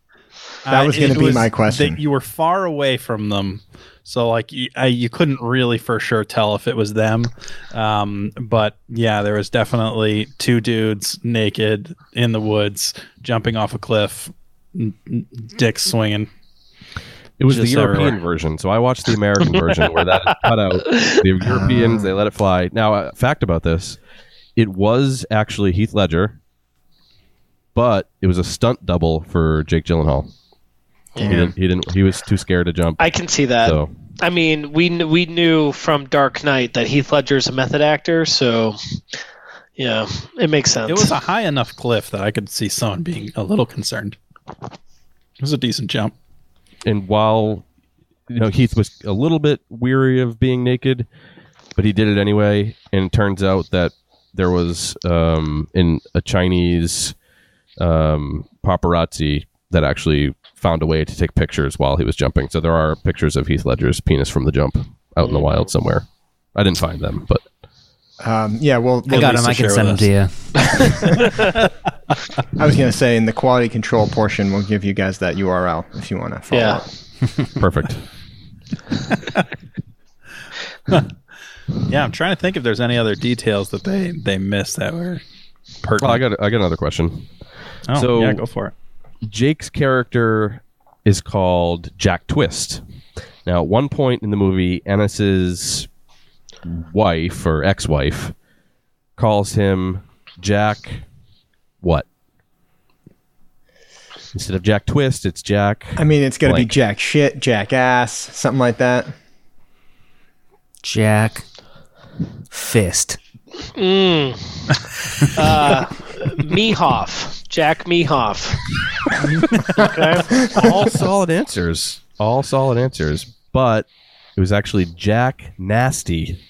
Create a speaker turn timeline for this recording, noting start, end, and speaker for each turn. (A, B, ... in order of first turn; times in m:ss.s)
0:00.6-0:16.3 A
0:00.7-0:02.0 B
0:17.4-0:24.0 C
0:17.5-0:18.2 A
0:21.4-0:22.1 B
0:24.6-0:26.4 C
0:27.7-0:30.3 C
0:31.2-0:31.4 D
0:31.2-0:31.5 B
0:31.2-0:33.9 C
0:33.0-0:38.8 D
0:39.8-0:41.1 D
0:40.8-0:44.2 A
0:45.4-0:46.1 A
0:46.8-0:47.6 C
0:48.3-0:51.1 C
0:51.7-0:57.2 C
0:57.8-1:07.4 C
1:05.2-1:05.6 D
1:08.2-1:09.9 B
1:09.1-1:10.1 A
1:09.1-1:10.6 E
1:11.0-1:11.3 D
1:12.6-1:16.8 B
1:16.5-1:16.8 D
1:17.6-1:18.1 C
1:21.9-1:25.2 A
1:25.8-1:26.2 A
1:26.0-1:28.4 C
1:27.9-1:28.7 A
1:29.2-1:32.8 C
1:33.4-1:35.9 C
1:36.6-1:38.4 C
1:39.2-1:41.0 C
1:44.3-1:46.7 C
1:46.0-1:49.1 B
1:50.8-1:51.4 E
1:52.5-1:53.2 E
1:53.7-1:58.7 D
1:59.2-1:59.8 A
1:59.8-2:00.4 D
2:00.3-2:00.8 B
2:00.4-2:06.4 C